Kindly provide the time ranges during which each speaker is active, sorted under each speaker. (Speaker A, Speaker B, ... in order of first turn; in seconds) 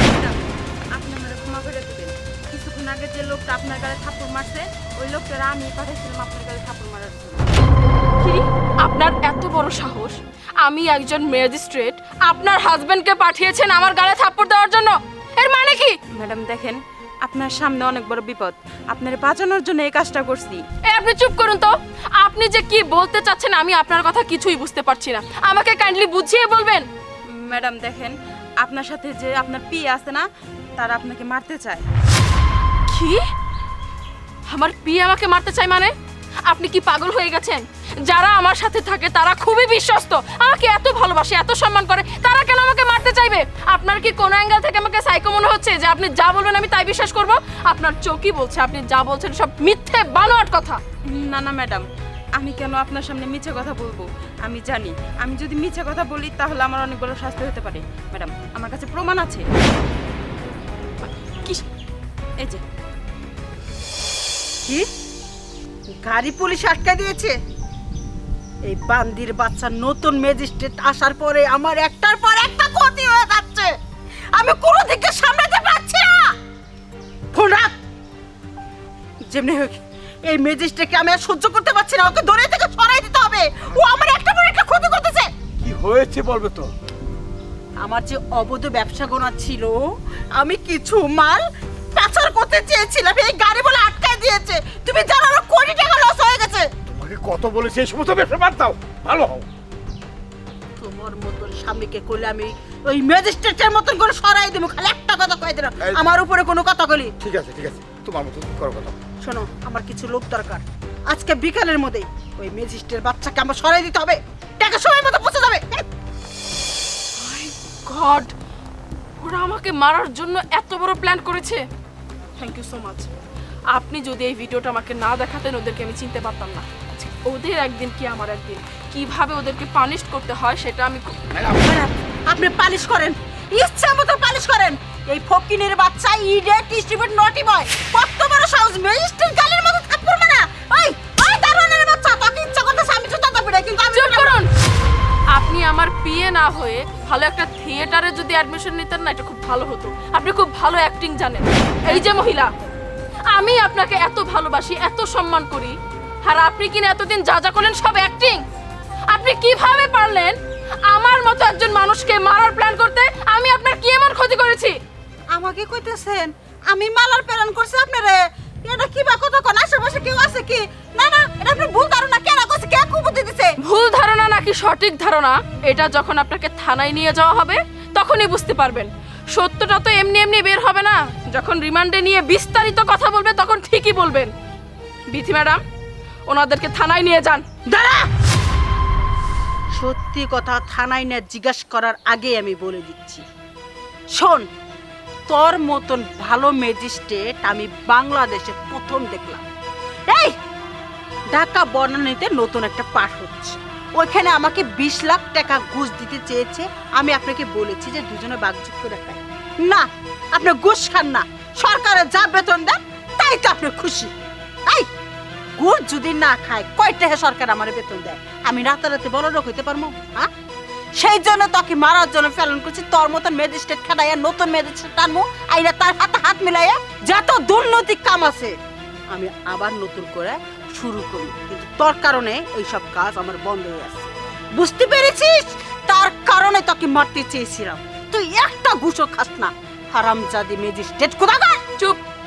Speaker A: 0.1-0.4, 0.9-7.5, 16.1-20.6, 27.3-30.2, 30.8-31.8, 51.1-51.8, 52.4-59.5
Speaker B: 8.2-16.0, 20.9-26.9, 32.9-33.2, 34.5-35.9, 36.5-50.8, 61.0-61.6, 117.2-118.3, 119.2-121.6, 122.4-123.1, 123.7-131.2, 143.9-144.5, 145.3-152.5, 153.3-158.4, 159.1-160.3, 160.9-164.7, 173.6-184.3, 185.1-185.6, 186.3-187.4
Speaker C: 66.0-67.3, 68.7-73.7, 74.3-76.3, 77.3-77.7, 79.3-85.3, 87.8-89.8, 90.3-91.4, 91.9-96.7, 100.8-107.1, 109.2-115.8, 131.5-144.4, 165.3-173.5, 187.7-188.1, 189.8-193.2, 194.1-194.4, 195.3-199.4, 200.1-200.3, 201.3-214.1, 215.6-220.3, 221.0-228.5, 229.1-241.6
Speaker D: 85.6-86.7, 96.9-99.5, 107.2-108.9